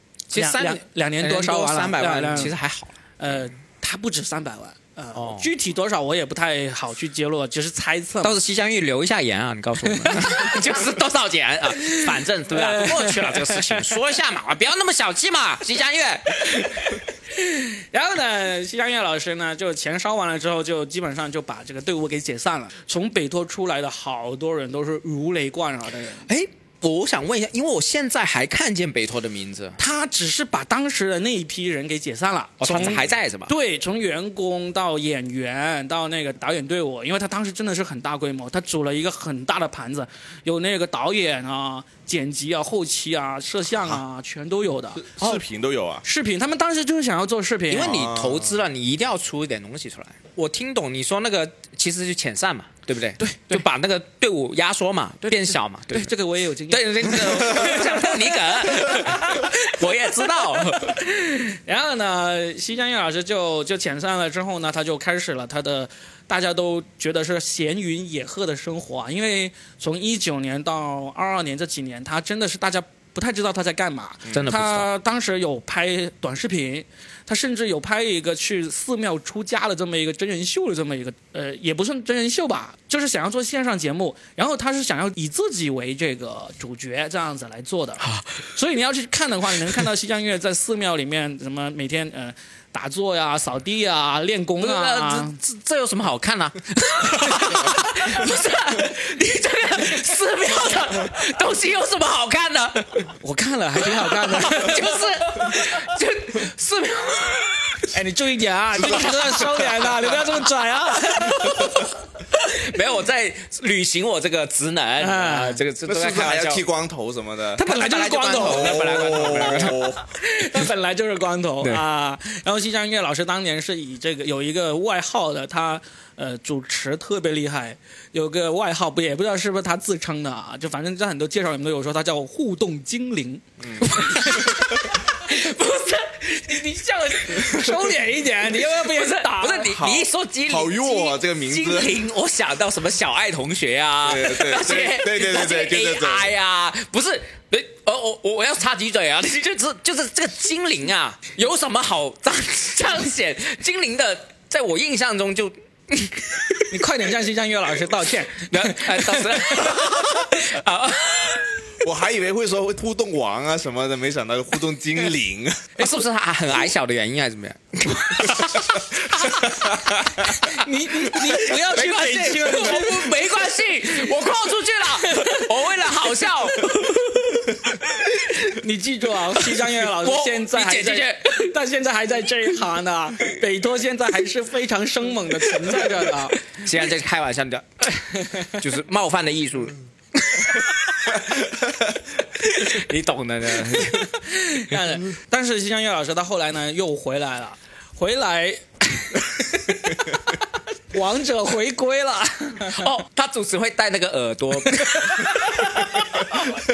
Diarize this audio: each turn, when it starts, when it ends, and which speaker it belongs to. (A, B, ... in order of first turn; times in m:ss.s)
0:00.3-0:03.0 A
0:00.3-0:02.6 B
0:03.2-0:08.4 B
0:05.1-0:05.5 A
0:08.2-0:17.0 A
0:09.8-0:10.7 B
0:11.8-0:13.9 B
0:16.3-0:26.3 B
0:26.3-0:29.8 A
0:29.8-0:45.2 B
0:32.6-0:33.5 A
0:45.0-0:46.1 C
0:46.0-0:48.0 B
0:47.7-0:56.1 A
0:47.8-0:48.5 C
0:53.2-0:53.6 B
0:55.2-1:35.4 B
0:56.7-1:01.0 A
1:14.3-1:14.9 A
1:28.1-1:28.4 A
1:34.6-1:43.1 A
1:37.2-1:38.0 B
1:43.2-1:45.0 B
1:43.8-1:47.9 A
1:47.9-1:52.0 B
1:48.8-1:50.4 A
1:51.2-1:51.8 A
1:52.4-1:56.6 A
1:55.0-1:55.6 B
1:55.8-1:57.6 C
1:57.6-2:19.7 B
1:57.6-1:59.9 A
1:58.3-2:00.0 C
2:13.6-2:13.9 C
2:18.6-2:36.8 A
2:19.6-2:22.0 C
2:24.0-2:26.3 C
2:36.7-2:40.1 B
2:38.5-2:41.8 A
2:41.8-2:45.8 C
2:45.8-2:58.1 A
2:50.2-2:53.5 B
2:55.0-2:55.5 B
2:58.1-3:06.4 B
2:59.5-3:01.5 A
3:06.4-3:11.2 A
3:08.1-3:08.6 B
3:12.4-3:14.1 A
3:13.7-3:20.4 B
3:20.9-3:22.8 B
3:22.7-3:26.4 A
3:24.7-3:26.5 B